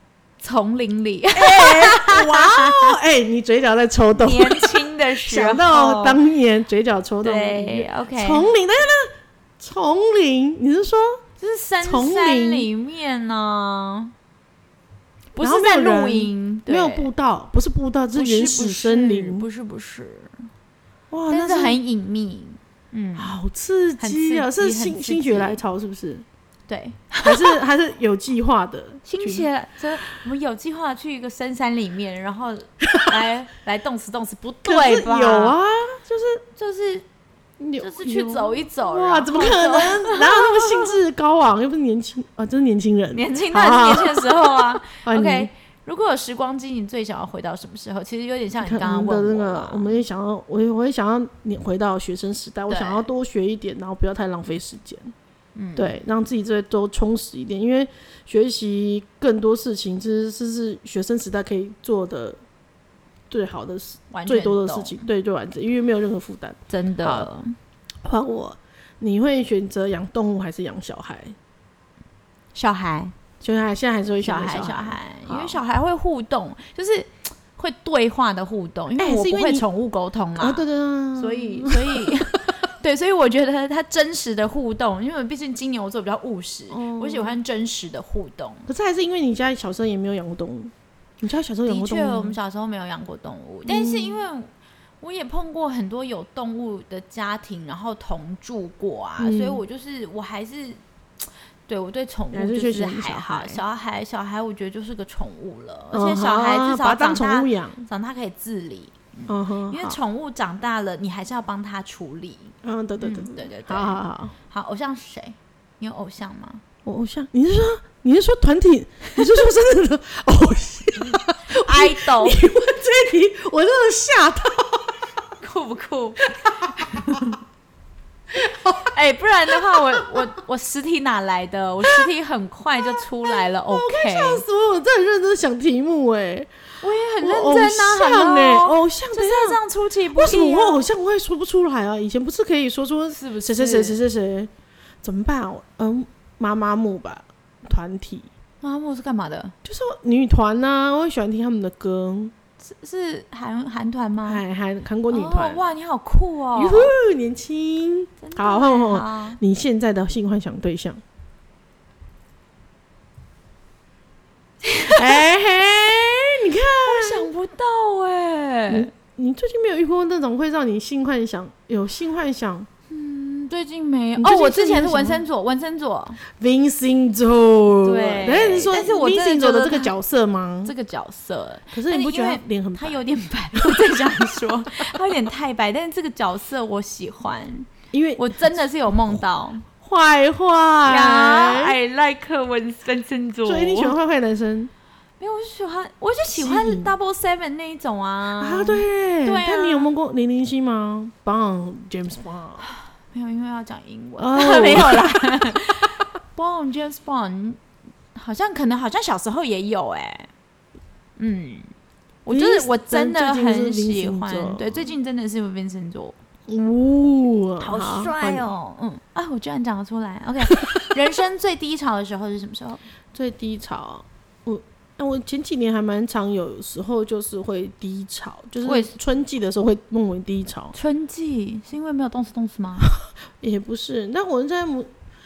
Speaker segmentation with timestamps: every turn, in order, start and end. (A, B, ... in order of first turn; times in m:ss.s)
0:00.4-0:02.9 A
0:01.3-0:11.2 B
0:04.2-0:06.2 A
0:07.2-0:08.5 A
0:11.4-0:14.1 A
0:11.8-0:12.7 B
0:15.3-0:17.1 A
0:15.4-0:19.5 B
0:18.1-0:20.5 A
0:21.1-0:21.8 B
0:21.3-0:23.3 A
0:23.2-0:26.2 B
0:24.0-0:25.6 A
0:26.7-0:27.6 A
0:27.2-0:29.5 B
0:29.0-0:35.6 A
0:34.6-0:36.4 B
0:36.6-0:37.0 A
0:37.6-0:45.5 B
0:37.8-0:40.9 A
0:43.1-0:50.0 A
0:48.6-0:55.1 B
0:52.7-0:53.0 A
0:55.6-0:55.9 A
0:55.8-1:02.4 B
1:03.3-1:07.3 B
1:04.1-1:05.0 A
1:06.7-1:07.5 A
1:08.0-1:11.3 B
1:12.5-1:13.1 A
1:13.4-1:15.6 B
1:14.2-1:20.6 A
1:19.0-1:19.6 B
1:20.4-1:22.2 B
1:21.2-1:28.7 A
1:26.7-1:27.3 B
1:28.7-1:32.4 B
1:31.6-1:56.6 A
1:33.7-1:34.2 B
1:39.2-1:39.6 B
1:42.3-1:43.6 B
1:45.9-1:47.8 B
1:49.3-1:50.0 B
1:52.6-1:54.3 B
1:56.8-2:05.0 B
2:01.1-2:02.4 A
2:05.4-2:07.4 A
2:06.4-2:07.3 B
2:08.3-2:08.9 B
2:08.8-2:14.4 A
2:09.5-2:10.1 B
2:12.8-2:16.5 B
2:16.8-2:20.8 A
2:17.2-2:19.6 B
2:20.1-2:24.5 B
2:23.1-2:24.0 A
2:25.0-2:28.3 B
2:28.6-2:29.5 A
2:29.6-2:32.3 B
2:32.6-2:34.4 A
2:34.2-2:35.6 B
2:35.1-2:36.9 A
2:36.6-2:41.0 B
2:38.2-2:39.4 A
2:44.6-2:45.2 A
2:44.9-2:47.3 B
2:46.8-2:48.9 A
2:48.7-2:52.7 B
2:52.9-2:56.2 A
2:54.2-2:55.2 B
2:56.3-3:00.7 B
2:57.8-2:59.9 A
3:00.6-3:09.6 A
3:01.7-3:04.4 B
3:07.9-3:09.2 B
3:09.8-3:11.8 B
3:10.8-3:13.9 A
3:13.4-3:14.7 B
3:15.2-3:19.9 A
3:16.3-3:16.9 B
3:18.4-3:22.7 B
3:23.0-3:27.6 A
3:24.2-3:25.6 B
3:28.1-3:30.3 A
3:31.2-3:31.7 A
3:32.2-3:36.2 A
3:32.3-3:34.8 B
3:36.5-3:38.5 B
3:37.6-3:42.8 A
3:43.1-3:50.7 B
3:48.6-3:48.9 A
3:50.7-3:52.9 A
3:53.4-3:54.9 B